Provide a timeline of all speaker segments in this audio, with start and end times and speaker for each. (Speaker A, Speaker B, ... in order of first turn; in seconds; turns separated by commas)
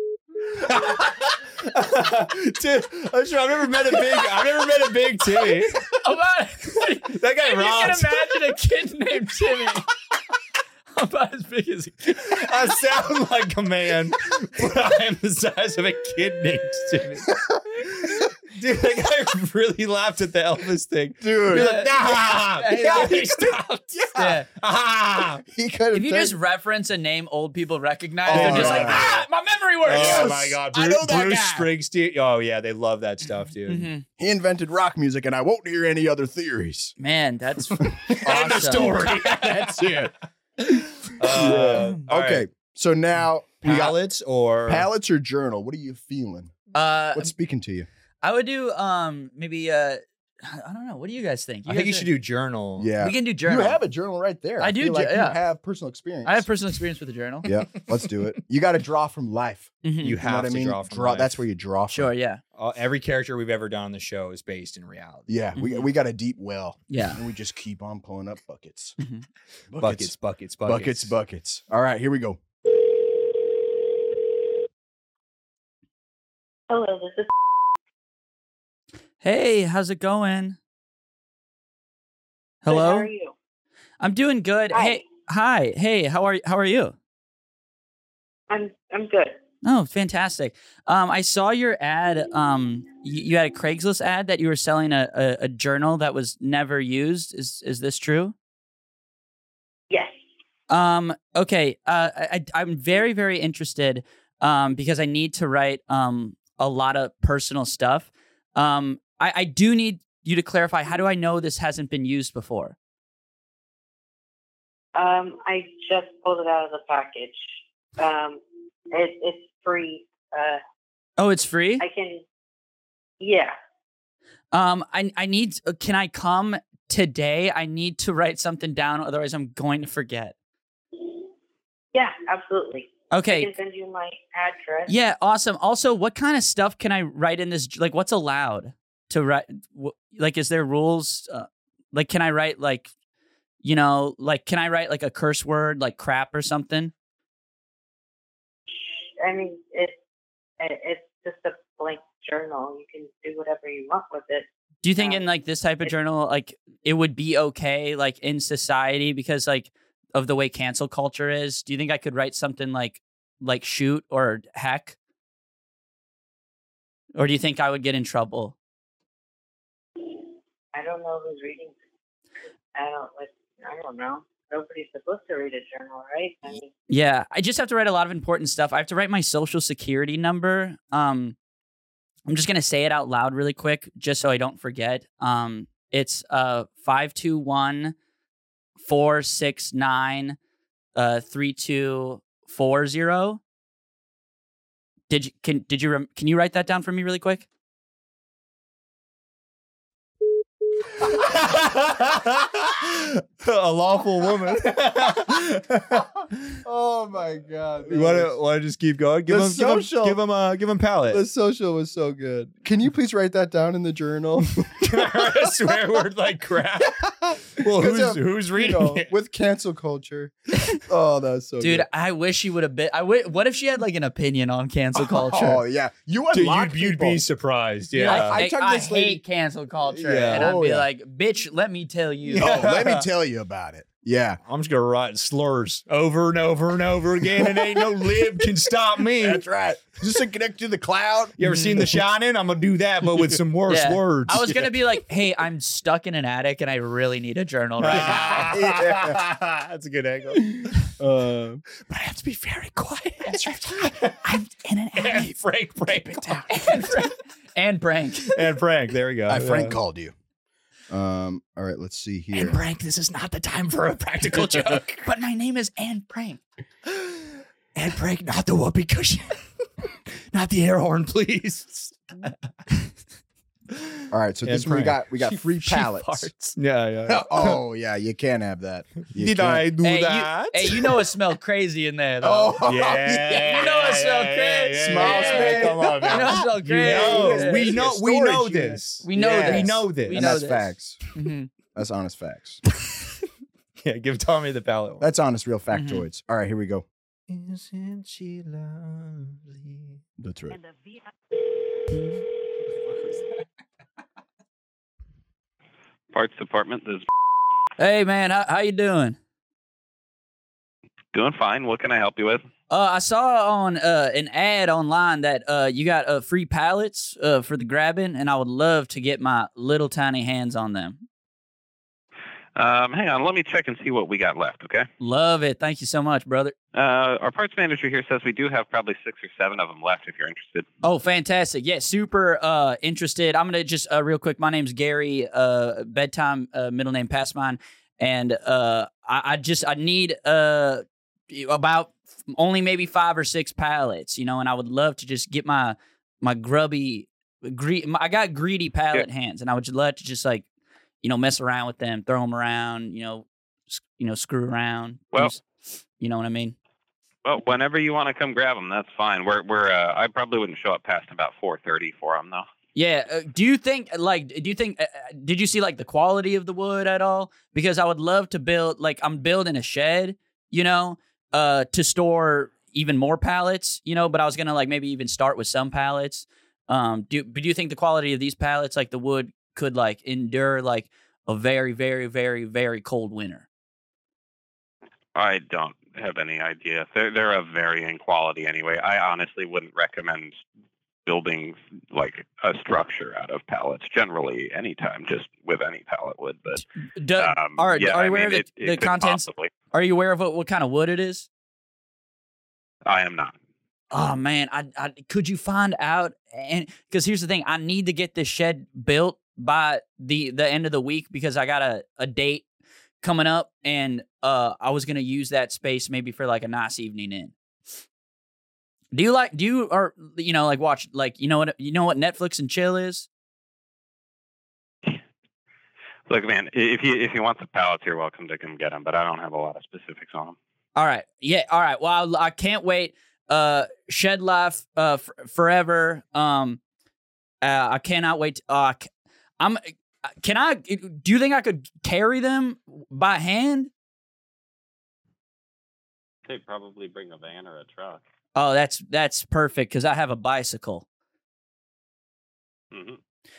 Speaker A: 0.6-5.8, Speaker B: 0.7-0.9, Speaker C: 5.8-9.9, Speaker A: 7.1-8.3, Speaker C: 10.9-12.4, Speaker A: 12.2-25.4, Speaker B: 17.3-17.6, Speaker B: 21.2-21.9, Speaker C: 21.5-23.6, Speaker B: 22.7-23.3, Speaker C: 24.1-24.4, Speaker B: 25.4-26.4, Speaker C: 25.9-30.5, Speaker B: 28.3-29.2, Speaker A: 28.3-29.3, Speaker B: 29.9-31.7, Speaker A: 29.9-33.9, Speaker C: 33.7-34.0, Speaker B: 34.2-36.9, Speaker C: 37.0-38.9, Speaker B: 38.0-40.1, Speaker A: 38.2-40.0, Speaker A: 40.8-42.4, Speaker B: 41.2-44.0, Speaker A: 43.6-44.9, Speaker B: 44.7-46.5, Speaker C: 46.7-47.3, Speaker B: 47.1-47.9, Speaker C: 48.2-52.1, Speaker A: 51.7-52.9, Speaker B: 52.8-56.5, Speaker C: 53.0-53.8, Speaker C: 54.6-55.4, Speaker C: 56.2-57.5, Speaker B: 57.4-62.1, Speaker C: 59.8-60.2, Speaker A: 60.0-61.3, Speaker C: 61.9-62.4, Speaker A: 62.6-65.4, Speaker B: 65.3-69.0, Speaker C: 65.5-65.9, Speaker C: 66.9-67.2, Speaker B: 69.7-72.4, Speaker A: 69.8-71.1, Speaker D: 73.1-73.4, Speaker D: 76.7-77.3, Speaker C: 79.2-80.6, Speaker C: 82.6-83.1, Speaker D: 82.7-83.3, Speaker C: 84.0-86.9, Speaker D: 84.7-85.0, Speaker D: 88.5-89.4, Speaker C: 89.6-98.3, Speaker D: 99.9-100.2, Speaker C: 100.7-112.7, Speaker D: 114.9-120.6, Speaker C: 121.2-121.8, Speaker D: 121.8-122.2, Speaker D: 123.2-123.5, Speaker C: 124.5-130.3, Speaker D: 131.0-131.2, Speaker D: 131.9-134.9, Speaker C: 133.1-133.5, Speaker C: 134.9-142.9, Speaker C: 143.6-146.9, Speaker D: 148.7-150.0, Speaker D: 150.6-155.2, Speaker C: 154.8-164.9, Speaker C: 167.1-168.5, Speaker D: 170.7-171.8, Speaker D: 172.8-176.7, Speaker C: 176.9-181.3, Speaker C: 182.3-187.9, Speaker C: 188.8-190.3, Speaker C: 190.9-193.4, Speaker C: 195.1-197.4, Speaker A: 201.0-206.5, Speaker B: 206.6-208.3, Speaker A: 207.8-211.2, Speaker B: 209.3-210.2, Speaker B: 211.1-216.0, Speaker A: 214.7-219.1, Speaker B: 217.0-221.9, Speaker C: 221.6-225.6, Speaker B: 225.0-227.2, Speaker A: 226.3-228.4, Speaker C: 228.0-232.5, Speaker B: 228.0-229.2, Speaker A: 230.0-230.5, Speaker B: 230.3-230.9, Speaker B: 232.3-234.4, Speaker A: 232.3-233.1, Speaker A: 234.4-239.4, Speaker B: 237.2-238.5, Speaker B: 239.0-241.4, Speaker A: 241.4-244.5, Speaker C: 241.4-241.9, Speaker C: 243.7-248.5, Speaker B: 244.4-244.6, Speaker A: 247.8-250.8, Speaker B: 247.8-249.3, Speaker B: 250.3-251.6, Speaker A: 251.9-254.2, Speaker C: 253.5-255.3, Speaker A: 254.9-257.0, Speaker C: 256.5-258.4, Speaker A: 258.2-259.8, Speaker B: 259.3-260.1, Speaker B: 260.9-262.6, Speaker A: 262.3-265.0, Speaker C: 264.3-266.4, Speaker A: 266.9-269.4, Speaker A: 270.2-272.0, Speaker B: 274.1-276.3, Speaker A: 274.4-275.0, Speaker C: 275.6-276.6, Speaker A: 276.6-277.6, Speaker B: 277.1-279.7, Speaker A: 279.0-280.8, Speaker C: 279.8-282.6, Speaker B: 282.2-283.6, Speaker A: 282.6-290.3, Speaker C: 283.3-287.7, Speaker B: 284.7-291.0, Speaker C: 289.0-291.5, Speaker B: 291.7-292.6, Speaker A: 293.8-295.1, Speaker B: 295.0-296.9, Speaker C: 295.7-296.0, Speaker A: 297.3-300.0, Speaker B: 300.2-300.6, Speaker E: 306.1-307.1, Speaker C: 307.8-309.1, Speaker E: 311.1-312.4, Speaker C: 312.7-321.0, Speaker E: 322.6-324.9, Speaker C: 325.0-326.5, Speaker E: 326.7-330.6, Speaker C: 330.8-350.4, Speaker C: 351.0-355.4, Speaker C: 356.0-356.5, Speaker E: 357.2-362.4, Speaker C: 362.7-383.4, Speaker E: 385.1-390.4, Speaker E: 391.1-396.6, Speaker C: 397.0-401.3, Speaker E: 397.2-399.5, Speaker E: 402.9-403.3, Speaker C: 403.9-412.4, Speaker C: 413.0-417.3, Speaker C: 418.9-423.1, Speaker E: 426.1-430.4, Speaker C: 430.8-436.6, Speaker C: 437.4-438.9, Speaker C: 439.4-443.7, Speaker E: 446.2-448.0, Speaker C: 448.3-450.8, Speaker E: 452.7-453.0